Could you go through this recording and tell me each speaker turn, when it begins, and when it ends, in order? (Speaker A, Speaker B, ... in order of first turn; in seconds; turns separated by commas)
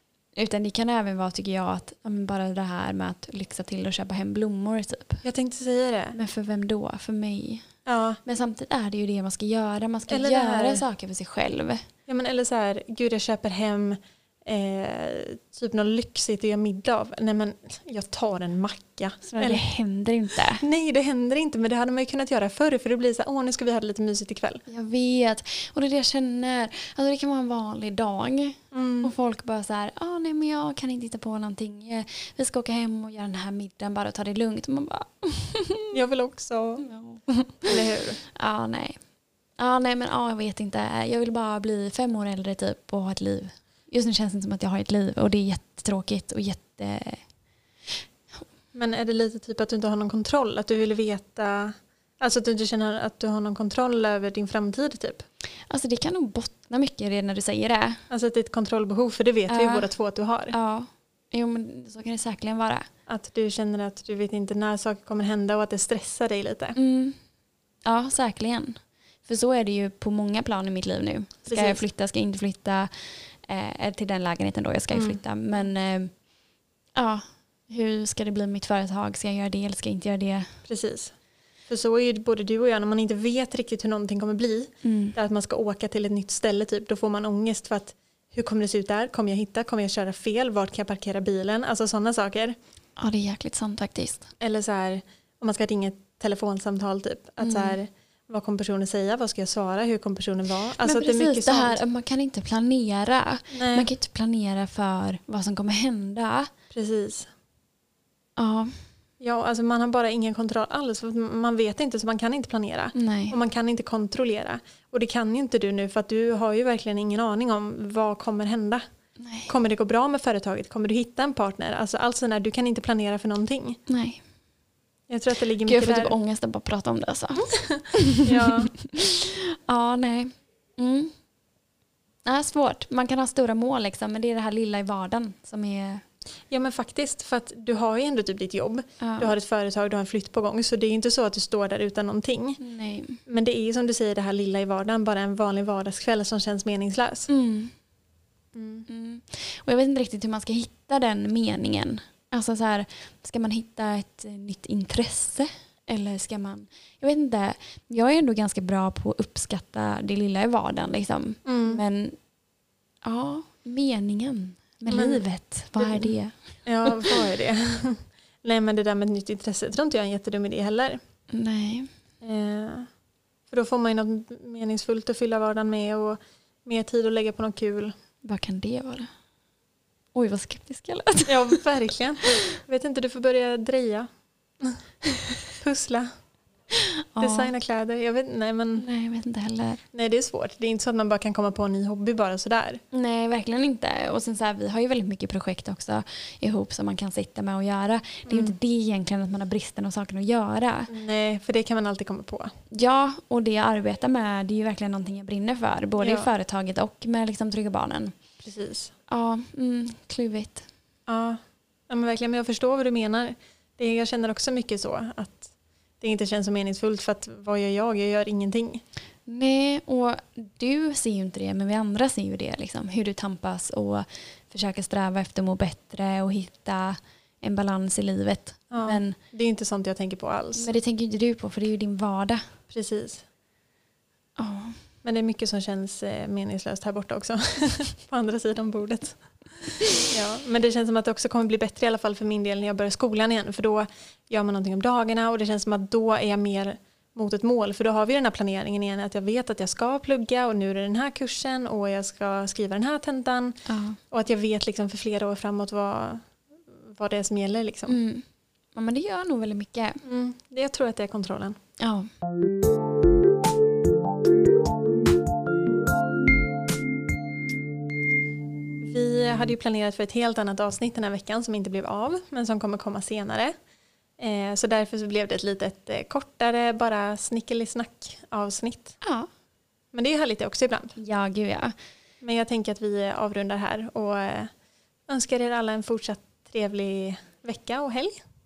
Speaker A: 0.4-5.2, Speaker B: 5.2-6.2, Speaker A: 6.1-7.7, Speaker B: 7.9-8.2, Speaker A: 8.2-11.9, Speaker B: 10.1-10.8, Speaker B: 12.1-19.6, Speaker A: 19.4-20.6, Speaker B: 20.6-24.6, Speaker A: 24.7-35.9, Speaker B: 28.7-29.1, Speaker B: 35.9-36.9, Speaker A: 36.8-37.7, Speaker B: 37.6-38.2, Speaker A: 38.4-39.0, Speaker A: 39.6-47.2, Speaker B: 48.7-55.2, Speaker A: 55.7-58.0, Speaker B: 58.1-60.5, Speaker A: 59.5-59.9, Speaker A: 60.5-62.9, Speaker B: 63.1-66.8, Speaker A: 66.8-67.2, Speaker A: 67.8-76.2, Speaker B: 71.5-71.8, Speaker B: 74.9-75.2, Speaker A: 77.0-80.5, Speaker B: 80.7-81.1, Speaker B: 81.7-92.6, Speaker A: 84.8-85.2, Speaker A: 93.0-94.3, Speaker B: 94.4-101.8, Speaker A: 97.4-97.8, Speaker A: 100.8-106.5, Speaker B: 103.5-103.9, Speaker B: 106.7-107.3, Speaker A: 108.4-108.8, Speaker B: 109.2-118.8, Speaker A: 112.9-113.4, Speaker A: 119.2-119.5, Speaker B: 119.5-123.8, Speaker A: 123.9-124.2, Speaker B: 125.1-126.2, Speaker A: 125.6-131.1, Speaker B: 127.7-128.7, Speaker A: 132.3-136.0, Speaker B: 136.5-142.6, Speaker A: 139.0-139.3, Speaker A: 142.6-143.2, Speaker B: 143.3-147.3, Speaker A: 147.3-147.8, Speaker B: 148.5-148.9, Speaker A: 148.9-162.2, Speaker B: 161.4-161.8, Speaker A: 163.0-167.1, Speaker B: 164.9-165.2, Speaker B: 165.8-166.1, Speaker B: 166.7-171.0, Speaker A: 171.3-171.9, Speaker B: 172.2-172.9, Speaker B: 173.5-177.9, Speaker A: 178.2-179.1, Speaker A: 180.1-181.6, Speaker B: 181.3-184.1, Speaker B: 184.6-186.1, Speaker A: 187.0-187.5, Speaker B: 187.2-188.9, Speaker A: 188.8-189.8, Speaker B: 189.9-192.8, Speaker A: 192.9-200.9, Speaker B: 198.3-198.6, Speaker B: 200.9-202.5, Speaker A: 202.7-208.1, Speaker B: 206.0-206.3, Speaker B: 208.4-208.9, Speaker A: 209.1-210.7, Speaker B: 211.1-218.8, Speaker A: 219.3-229.2, Speaker B: 228.7-230.7, Speaker A: 230.6-232.5, Speaker B: 232.7-233.2, Speaker A: 234.4-234.8, Speaker B: 235.0-239.5, Speaker B: 240.0-258.0, Speaker A: 253.7-254.0, Speaker A: 257.9-260.0, Speaker B: 260.0-261.6, Speaker A: 261.8-262.1, Speaker B: 268.8-273.5, Speaker B: 274.2-279.0, Speaker A: 279.0-279.3, Speaker B: 279.9-280.9, Speaker A: 281.0-281.7, Speaker B: 282.2-284.5, Speaker B: 285.1-288.2